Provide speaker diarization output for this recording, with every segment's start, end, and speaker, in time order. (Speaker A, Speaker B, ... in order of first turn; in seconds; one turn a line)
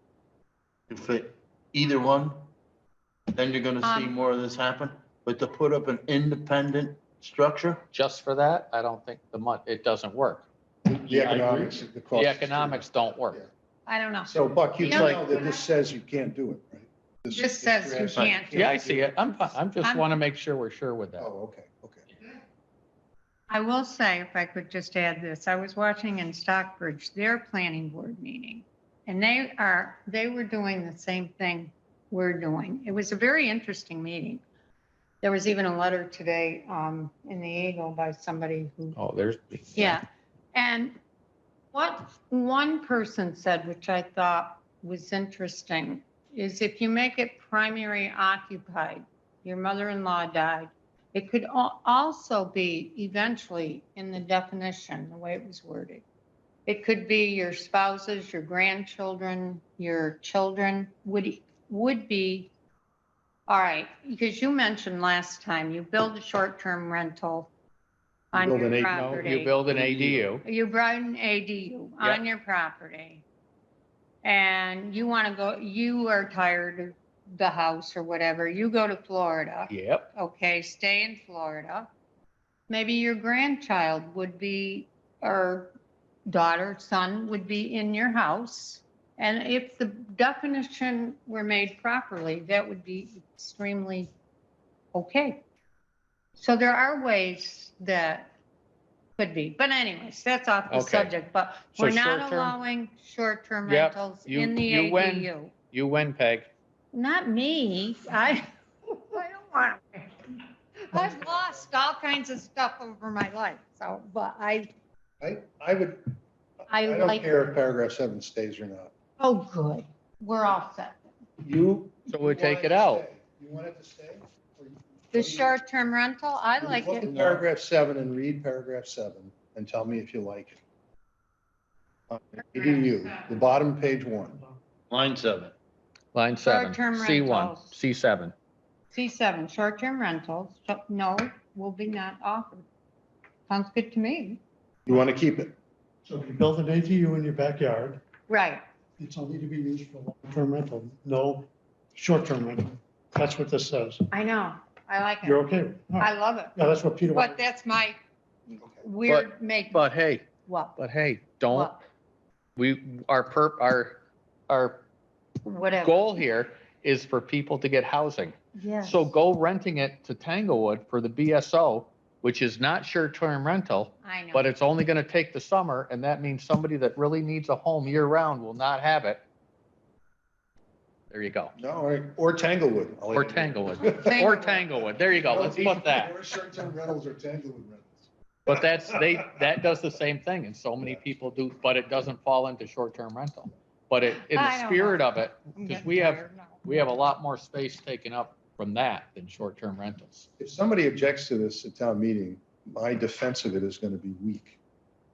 Speaker A: 0.9-2.5
Speaker A: 3.3-7.8
Speaker B: 3.8-4.1
Speaker C: 7.9-10.5
Speaker D: 10.9-13.5
Speaker C: 11.0-13.4
Speaker B: 13.8-15.7
Speaker D: 14.3-19.2
Speaker B: 17.3-18.8
Speaker C: 18.5-21.3
Speaker B: 19.8-20.1
Speaker D: 21.2-22.1
Speaker B: 23.5-34.4
Speaker B: 35.2-39.0
Speaker C: 38.9-40.0
Speaker B: 39.7-40.0
Speaker B: 40.5-41.0
Speaker B: 41.7-56.0
Speaker B: 56.6-62.5
Speaker B: 63.5-67.5
Speaker B: 68.3-69.6
Speaker D: 68.3-70.2
Speaker C: 68.9-70.4
Speaker B: 70.4-73.2
Speaker B: 74.2-81.9
Speaker C: 79.7-80.1
Speaker B: 82.7-85.7
Speaker B: 86.3-94.1
Speaker B: 94.9-95.4
Speaker B: 96.3-98.3
Speaker B: 99.2-105.5
Speaker C: 100.7-101.1
Speaker C: 101.7-102.5
Speaker C: 103.7-106.5
Speaker B: 106.9-114.7
Speaker D: 115.2-116.0
Speaker B: 116.7-117.4
Speaker D: 116.7-118.9
Speaker B: 119.2-121.0
Speaker D: 121.4-125.5
Speaker C: 122.1-123.0
Speaker B: 125.1-127.3
Speaker D: 126.6-130.6
Speaker A: 127.1-127.4
Speaker D: 132.1-134.5
Speaker A: 134.9-135.5
Speaker C: 136.1-138.3
Speaker B: 136.4-137.8
Speaker B: 138.9-142.7
Speaker B: 143.5-144.4
Speaker D: 144.8-145.5
Speaker E: 146.0-148.1
Speaker B: 148.3-148.6
Speaker E: 149.0-154.1
Speaker B: 154.1-156.6
Speaker E: 155.2-157.4
Speaker B: 157.1-158.0
Speaker B: 158.7-159.9
Speaker C: 159.1-161.8
Speaker B: 160.4-160.8
Speaker B: 161.5-161.8
Speaker C: 162.6-164.8
Speaker B: 165.4-166.1
Speaker C: 165.8-179.2
Speaker B: 168.5-169.1
Speaker B: 174.0-174.5
Speaker C: 181.1-181.5
Speaker D: 181.6-184.2
Speaker C: 183.1-186.1
Speaker B: 183.9-184.6
Speaker D: 185.2-188.1
Speaker C: 188.5-200.3
Speaker D: 188.8-189.1
Speaker D: 190.8-191.1
Speaker B: 194.3-196.6
Speaker D: 200.4-204.6